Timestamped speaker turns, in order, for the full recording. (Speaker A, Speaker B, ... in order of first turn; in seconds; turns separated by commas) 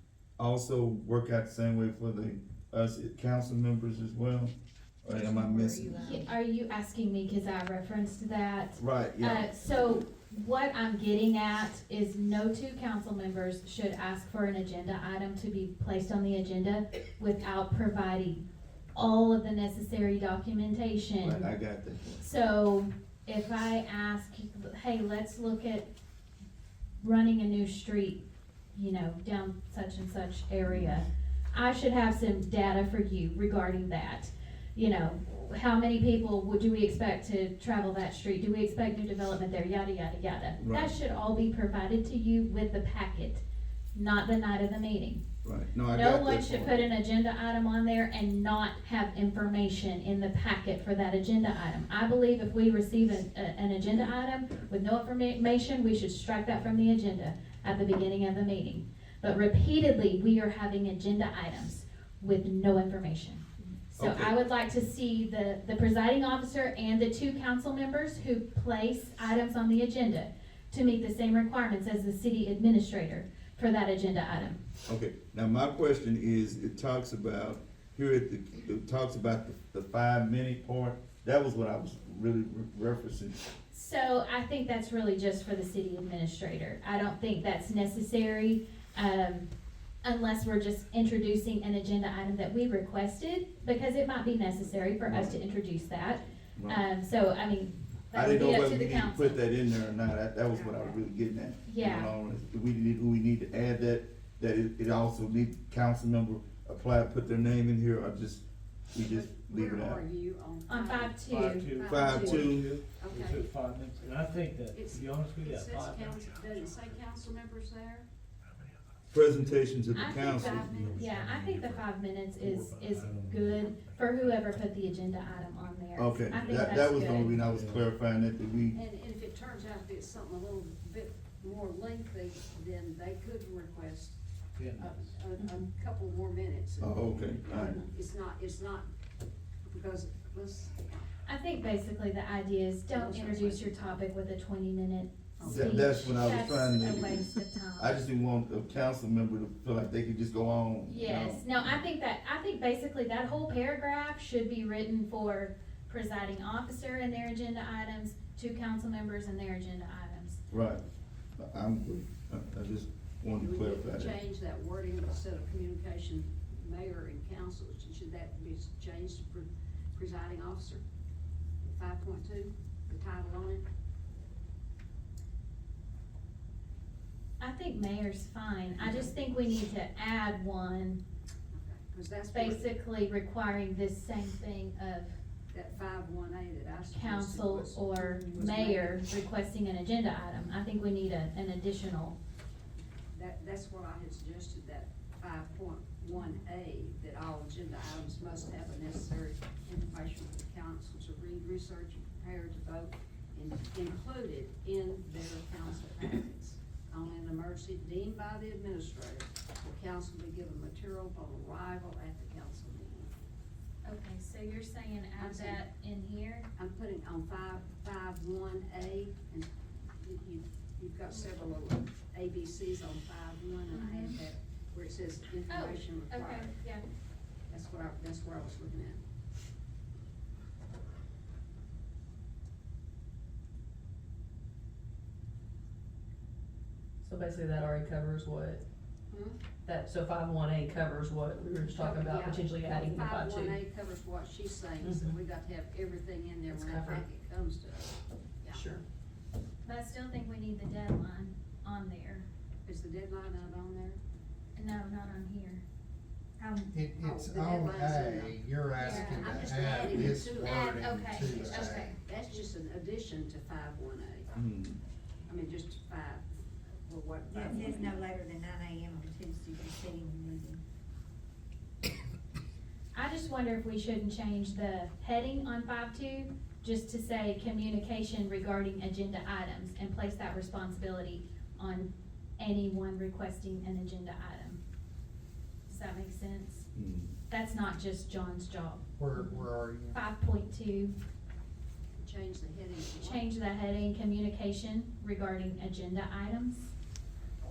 Speaker A: 0.4-6.2, Speaker B: 5.1-6.2, Speaker C: 6.0-18.4, Speaker A: 8.8-9.8, Speaker C: 18.9-21.5, Speaker A: 21.2-22.2, Speaker C: 22.2-25.9, Speaker C: 27.0-28.2, Speaker C: 28.7-43.4, Speaker A: 30.7-31.0, Speaker A: 40.6-40.9, Speaker C: 43.9-45.2, Speaker A: 45.4-46.9, Speaker C: 45.9-74.6, Speaker A: 64.0-64.3, Speaker A: 74.9-83.4, Speaker C: 83.7-89.5, Speaker C: 90.0-99.4, Speaker A: 95.0-95.4, Speaker A: 96.6-96.8, Speaker A: 98.1-110.0, Speaker D: 100.5-101.0, Speaker C: 101.7-102.1, Speaker D: 109.0-113.5, Speaker C: 110.7-111.7, Speaker E: 111.2-116.4, Speaker A: 111.9-112.7, Speaker D: 114.7-118.0, Speaker A: 119.1-120.7, Speaker C: 119.9-127.4, Speaker D: 120.1-121.1, Speaker E: 120.5-121.8, Speaker E: 122.4-124.4, Speaker A: 126.0-128.8, Speaker E: 127.2-127.9, Speaker D: 128.7-134.2, Speaker E: 134.6-135.2, Speaker D: 134.8-138.9, Speaker A: 136.8-137.8, Speaker D: 139.7-141.1, Speaker C: 141.2-148.0, Speaker D: 142.9-144.0, Speaker D: 145.4-146.0, Speaker A: 145.4-147.3, Speaker A: 147.8-151.7, Speaker C: 150.9-160.4, Speaker A: 160.5-160.8, Speaker A: 161.4-164.2, Speaker D: 163.4-170.8, Speaker D: 171.6-173.7, Speaker C: 177.4-181.0, Speaker D: 178.8-179.1, Speaker D: 181.5-182.7, Speaker C: 182.3-185.2, Speaker D: 185.5-189.1, Speaker C: 186.9-192.2, Speaker D: 193.1-213.1, Speaker C: 213.8-216.5, Speaker D: 215.2-215.6, Speaker D: 216.6-219.5, Speaker D: 220.0-226.5, Speaker C: 223.7-224.2, Speaker C: 225.5-226.8, Speaker D: 227.5-229.0, Speaker B: 237.0-238.6, Speaker D: 239.1-239.4, Speaker B: 239.7-243.6, Speaker D: 241.7-248.6, Speaker B: 244.8-245.2, Speaker B: 246.5-247.1, Speaker B: 248.5-248.8, Speaker C: 249.7-252.3, Speaker D: 252.6-254.0, Speaker C: 254.6-255.6, Speaker F: 256.4-256.7, Speaker G: 256.7-261.9, Speaker D: 257.0-264.3, Speaker C: 258.8-259.4, Speaker C: 260.4-262.0, Speaker A: 264.4-264.8, Speaker D: 265.3-268.1, Speaker F: 267.3-270.6, Speaker C: 272.9-284.6, Speaker C: 285.7-286.7, Speaker A: 286.8-287.1, Speaker C: 287.3-290.9, Speaker G: 289.0-290.0, Speaker D: 292.0-293.2, Speaker C: 293.0-296.7